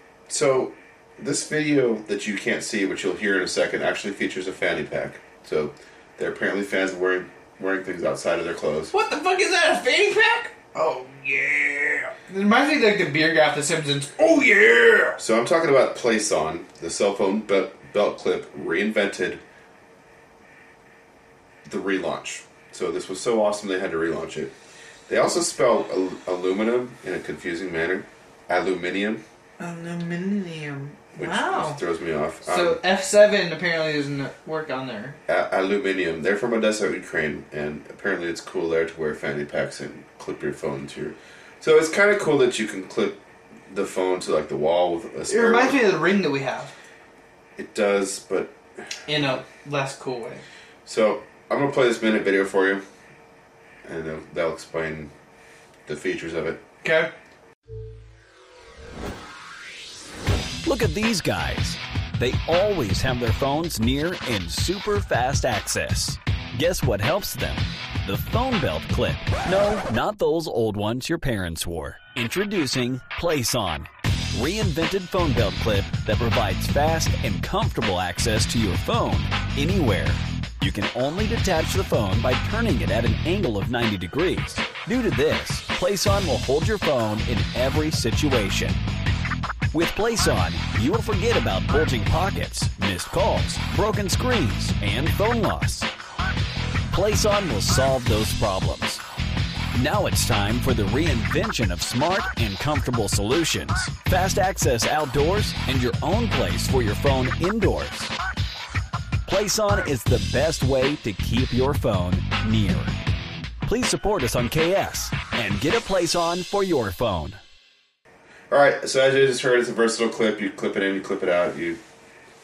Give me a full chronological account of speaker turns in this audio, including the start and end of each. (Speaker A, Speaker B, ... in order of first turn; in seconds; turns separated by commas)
Speaker A: 0.3-8.9, Speaker B: 8.9-15.2, Speaker A: 15.2-19.4, Speaker A: 21.6-24.6, Speaker A: 25.1-29.2, Speaker B: 29.6-31.8, Speaker A: 31.2-32.8, Speaker B: 32.4-35.2, Speaker A: 35.3-45.8, Speaker B: 45.3-46.7, Speaker A: 47.6-48.6, Speaker B: 49.1-50.4, Speaker A: 50.9-52.8, Speaker A: 53.8-55.1, Speaker A: 55.9-56.6, Speaker B: 56.8-57.1, Speaker C: 60.6-88.8, Speaker C: 89.7-95.9, Speaker C: 96.9-99.0, Speaker C: 99.7-108.1, Speaker C: 109.3-113.0, Speaker C: 113.6-117.4, Speaker A: 118.5-121.8